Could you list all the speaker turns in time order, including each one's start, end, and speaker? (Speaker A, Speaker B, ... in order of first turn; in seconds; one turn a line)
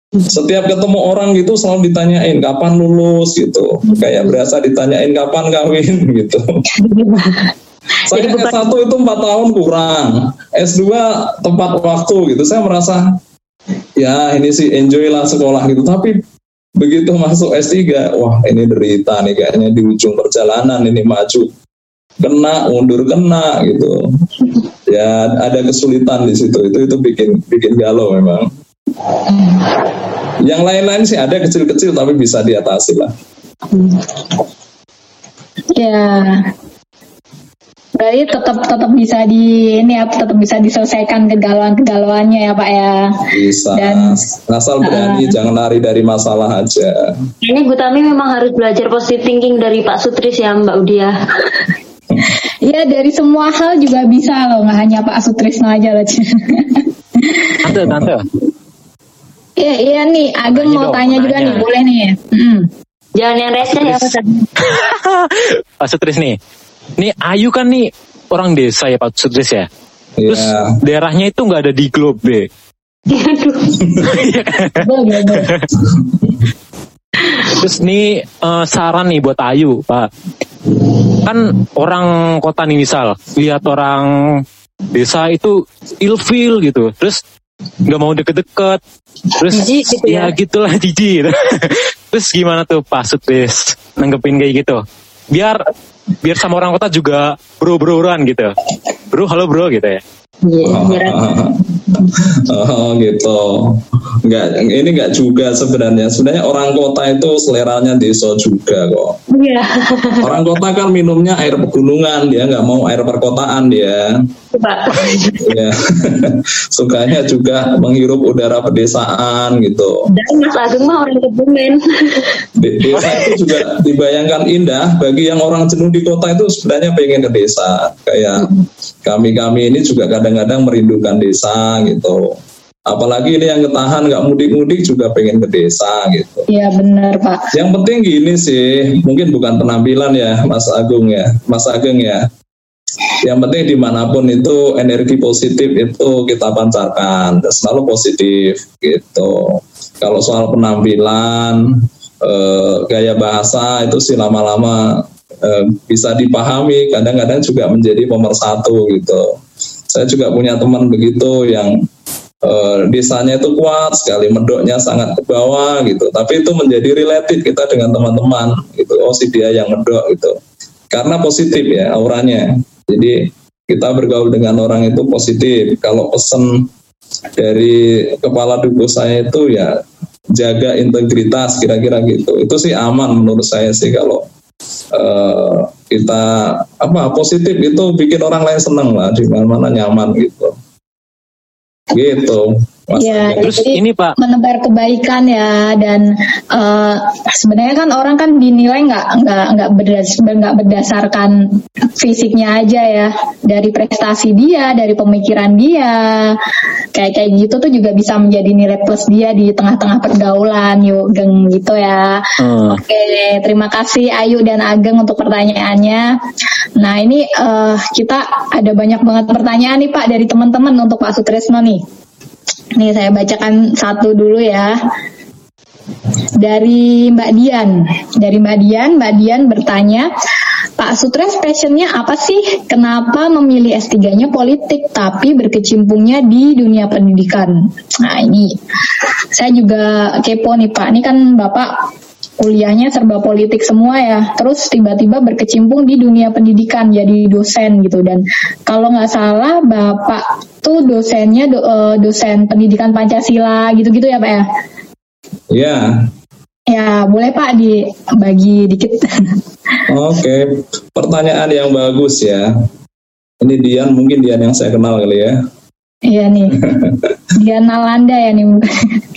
Speaker A: 0.3-6.6
Speaker B: 6.8-7.5
Speaker A: 8.1-13.2
Speaker B: 8.1-8.6
Speaker A: 14.0-16.2
Speaker A: 16.8-21.5
Speaker A: 22.2-24.0
Speaker A: 24.9-28.5
Speaker A: 30.4-33.1
Speaker C: 35.7-36.5
Speaker C: 38.0-44.2
Speaker A: 43.3-47.1
Speaker C: 44.8-45.3
Speaker B: 47.4-51.6
Speaker C: 52.6-57.7
Speaker D: 57.6-58.2
Speaker C: 59.6-62.7
Speaker D: 60.5-61.7
Speaker B: 63.1-64.5
Speaker D: 63.7-66.4
Speaker D: 67.0-69.7
Speaker A: 70.2-70.8
Speaker D: 70.3-72.5
Speaker B: 73.1-74.1
Speaker D: 74.0-75.6
Speaker C: 74.8-75.5
Speaker D: 77.6-80.1
Speaker D: 80.7-87.2
Speaker D: 87.8-88.8
Speaker D: 89.4-95.7
Speaker B: 89.5-90.3
Speaker D: 96.2-98.5
Speaker D: 99.1-100.0
Speaker B: 100.4-101.3
Speaker A: 100.6-109.2
Speaker B: 109.3-110.2
Speaker A: 110.2-114.2
Speaker B: 114.5-115.5
Speaker A: 115.4-120.1
Speaker B: 120.1-122.4
Speaker A: 122.5-128.5
Speaker A: 129.0-136.5
Speaker C: 136.5-137.5
Speaker A: 137.5-142.3
Speaker A: 143.2-159.4
Speaker A: 159.9-161.8
Speaker A: 162.4-170.4
Speaker A: 170.9-176.7
Speaker A: 177.4-179.8
Speaker A: 180.3-184.2
Speaker A: 184.9-190.5
Speaker A: 191.9-193.6
Speaker C: 193.0-206.4
Speaker D: 193.4-194.2
Speaker C: 206.9-216.1
Speaker D: 212.4-212.8
Speaker C: 216.8-221.8
Speaker C: 222.8-224.7
Speaker C: 226.4-230.1
Speaker C: 230.8-238.6
Speaker C: 239.3-241.7
Speaker C: 242.4-254.4
Speaker A: 255.5-256.1
Speaker C: 256.7-259.4
Speaker A: 259.9-262.5
Speaker A: 263.4-265.4
Speaker C: 266.1-266.6
Speaker C: 267.3-269.0